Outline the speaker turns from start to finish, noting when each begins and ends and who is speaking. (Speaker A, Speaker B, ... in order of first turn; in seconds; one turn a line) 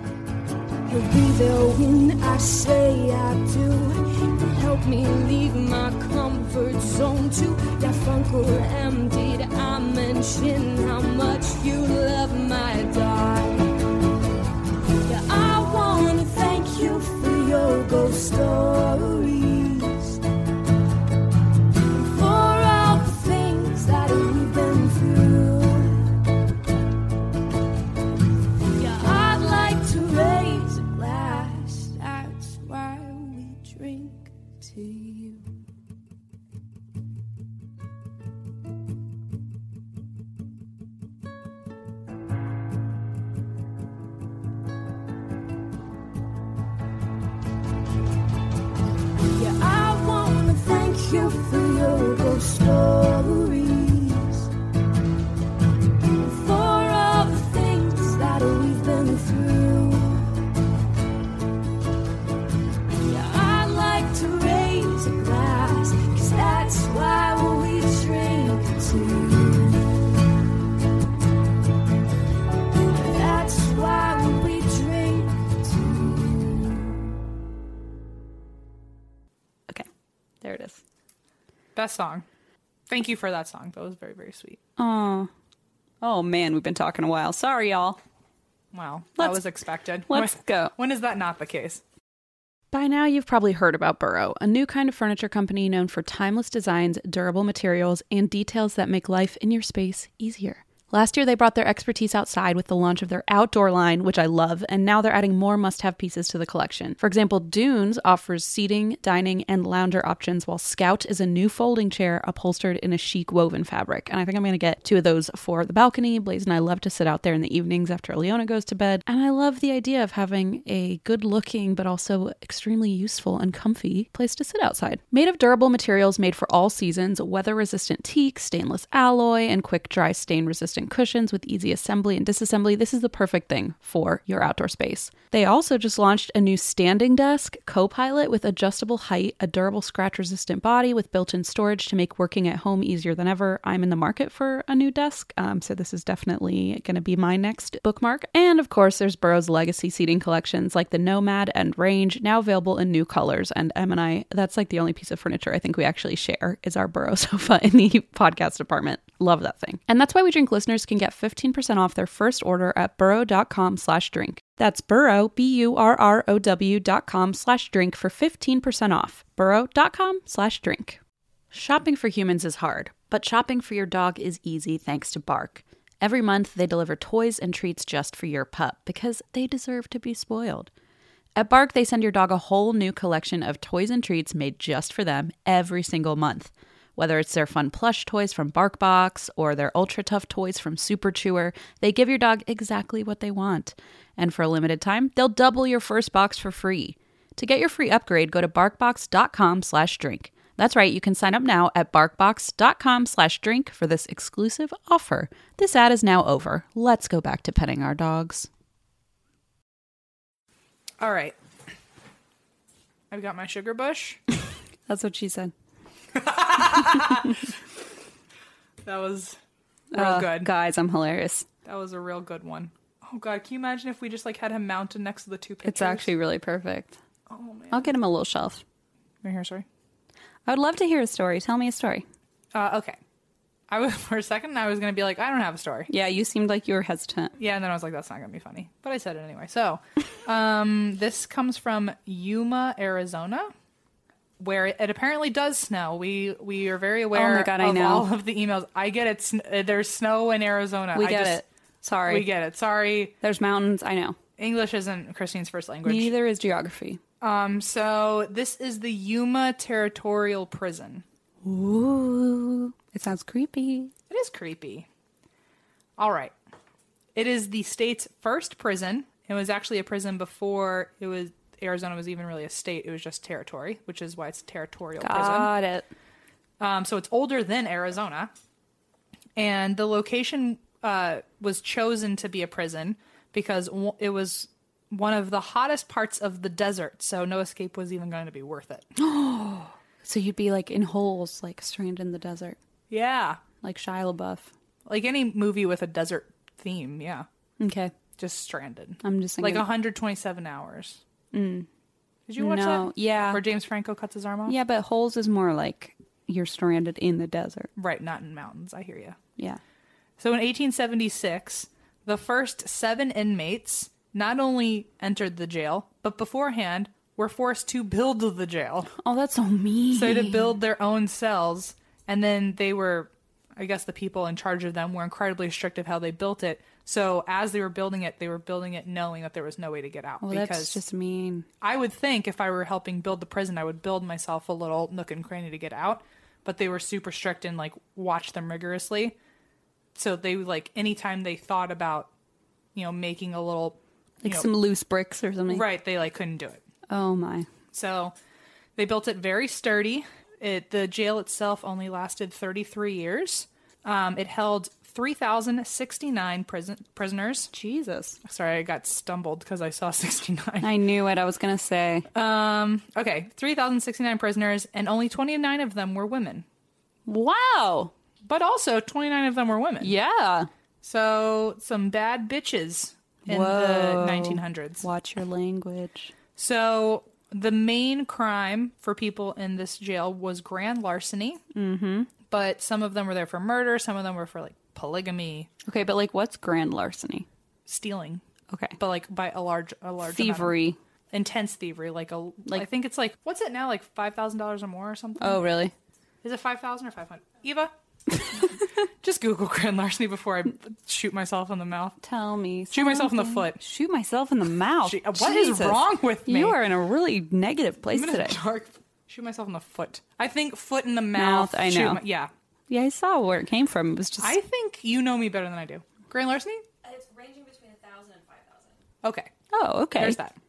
Speaker A: 0.9-13.7
Speaker A: 15.0-20.2
Speaker A: 21.9-26.2
Speaker A: 28.7-35.5
Speaker A: 49.3-54.5
Speaker A: 56.2-60.3
Speaker A: 63.0-69.8
Speaker A: 72.8-77.0
Speaker B: 80.4-80.8
Speaker C: 81.7-82.2
Speaker C: 82.9-84.6
Speaker B: 84.8-85.3
Speaker B: 86.0-88.0
Speaker C: 88.7-91.8
Speaker B: 90.1-90.7
Speaker D: 92.7-171.0
Speaker D: 171.5-180.7
Speaker D: 181.3-208.5
Speaker C: 211.0-211.3
Speaker C: 213.1-214.2
Speaker B: 214.9-215.5
Speaker C: 216.1-217.3
Speaker C: 218.8-219.4
Speaker C: 219.9-220.5
Speaker B: 219.9-221.5
Speaker C: 221.6-226.1
Speaker B: 225.6-227.0
Speaker C: 227.3-227.9
Speaker B: 227.7-228.6
Speaker C: 229.2-229.7
Speaker B: 230.5-232.1
Speaker C: 232.5-233.0
Speaker C: 233.7-235.9
Speaker B: 235.9-237.3
Speaker C: 237.4-243.5
Speaker C: 244.4-251.4
Speaker B: 247.1-248.1
Speaker B: 250.9-252.3
Speaker C: 252.1-253.1
Speaker B: 253.2-254.2
Speaker C: 254.4-256.1
Speaker B: 255.8-257.0
Speaker C: 257.2-261.0
Speaker B: 261.4-263.9
Speaker C: 264.1-264.9
Speaker C: 266.0-266.3
Speaker C: 267.1-275.5
Speaker B: 275.0-275.9
Speaker C: 276.6-278.3
Speaker C: 279.4-288.9
Speaker B: 289.0-292.6
Speaker C: 292.9-293.4
Speaker B: 293.6-294.5
Speaker C: 294.9-297.2
Speaker B: 297.6-297.9
Speaker C: 298.2-301.0
Speaker B: 299.0-299.7
Speaker B: 301.3-301.7
Speaker C: 302.3-304.6
Speaker B: 302.4-303.4
Speaker B: 304.4-307.7
Speaker C: 307.8-309.2
Speaker C: 310.2-318.9
Speaker B: 319.0-320.5
Speaker C: 319.9-330.8
Speaker B: 330.2-331.5
Speaker C: 331.6-339.1
Speaker C: 339.9-342.1
Speaker C: 342.7-344.5
Speaker B: 344.2-345.7
Speaker C: 345.5-346.6
Speaker B: 346.9-347.5
Speaker C: 347.7-348.1
Speaker C: 348.8-357.5
Speaker B: 357.5-358.2
Speaker C: 358.2-360.8
Speaker B: 360.6-362.1
Speaker C: 362.1-366.4
Speaker B: 367.1-367.9
Speaker C: 368.2-369.9
Speaker B: 369.8-370.5
Speaker C: 370.8-374.8
Speaker B: 373.2-376.1
Speaker C: 376.4-381.4
Speaker B: 381.5-382.1
Speaker C: 382.3-385.5
Speaker B: 385.6-387.3
Speaker C: 387.6-388.2
Speaker B: 388.5-388.8
Speaker C: 388.8-390.6
Speaker B: 390.1-390.8
Speaker C: 391.1-395.4
Speaker B: 395.2-395.7
Speaker C: 396.2-397.7
Speaker C: 399.0-402.0
Speaker B: 402.0-408.4
Speaker C: 402.7-403.6
Speaker C: 404.8-406.6
Speaker C: 407.9-412.3
Speaker B: 411.1-412.0
Speaker B: 412.7-414.4
Speaker C: 414.2-416.6
Speaker E: 416.8-418.8
Speaker C: 419.0-419.3
Speaker B: 419.5-420.2
Speaker C: 419.9-420.4